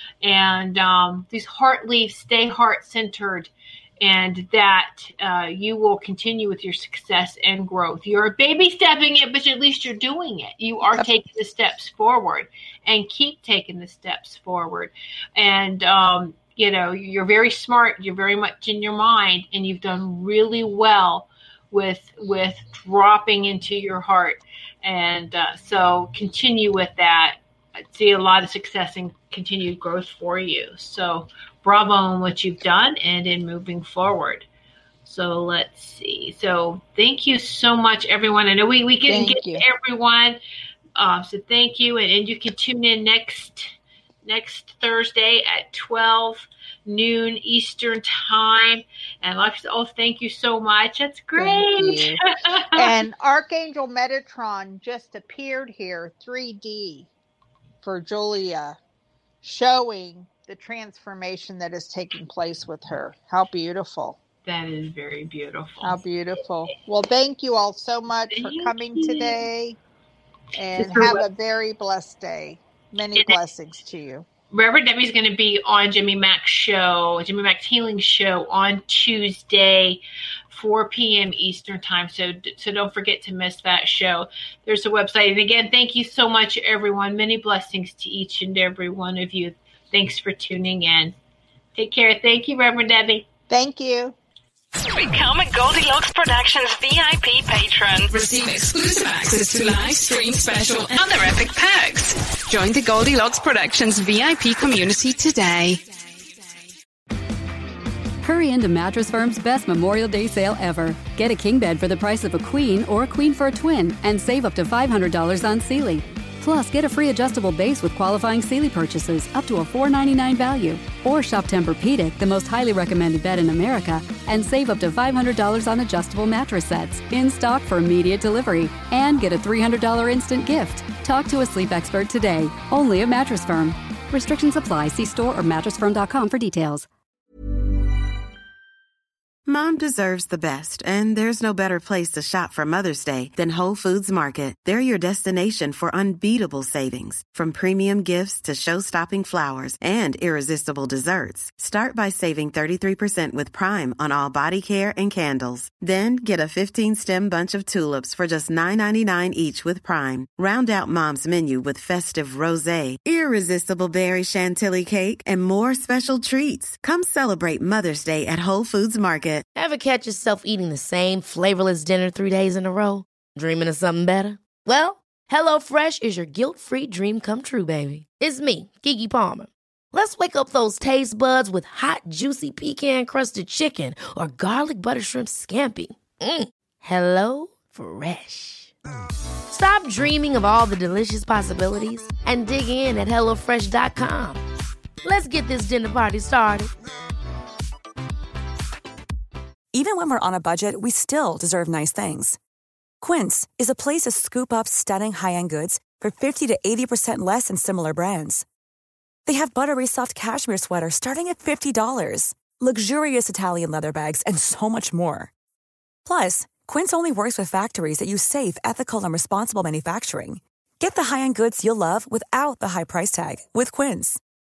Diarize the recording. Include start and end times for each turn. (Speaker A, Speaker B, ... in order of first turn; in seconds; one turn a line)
Speaker A: 0.2-3.5
Speaker A: 4.0-27.4
Speaker A: 27.9-34.5
Speaker A: 35.0-40.4
Speaker B: 39.1-39.6
Speaker A: 41.0-43.7
Speaker A: 44.2-52.8
Speaker B: 51.4-57.1
Speaker B: 57.8-58.8
Speaker B: 59.4-64.2
Speaker A: 64.5-66.0
Speaker B: 65.8-69.8
Speaker A: 68.3-69.4
Speaker B: 70.5-74.2
Speaker A: 70.8-71.2
Speaker A: 74.5-91.1
Speaker A: 91.7-93.2
Speaker B: 93.5-94.2
Speaker C: 94.9-105.8
Speaker D: 108.2-136.9
Speaker E: 139.4-169.4
Speaker F: 169.5-188.7
Speaker F: 189.5-194.4
Speaker F: 195.0-196.7
Speaker G: 199.7-202.4
Speaker G: 203.0-208.4
Speaker G: 209.3-215.3
Speaker G: 216.0-224.2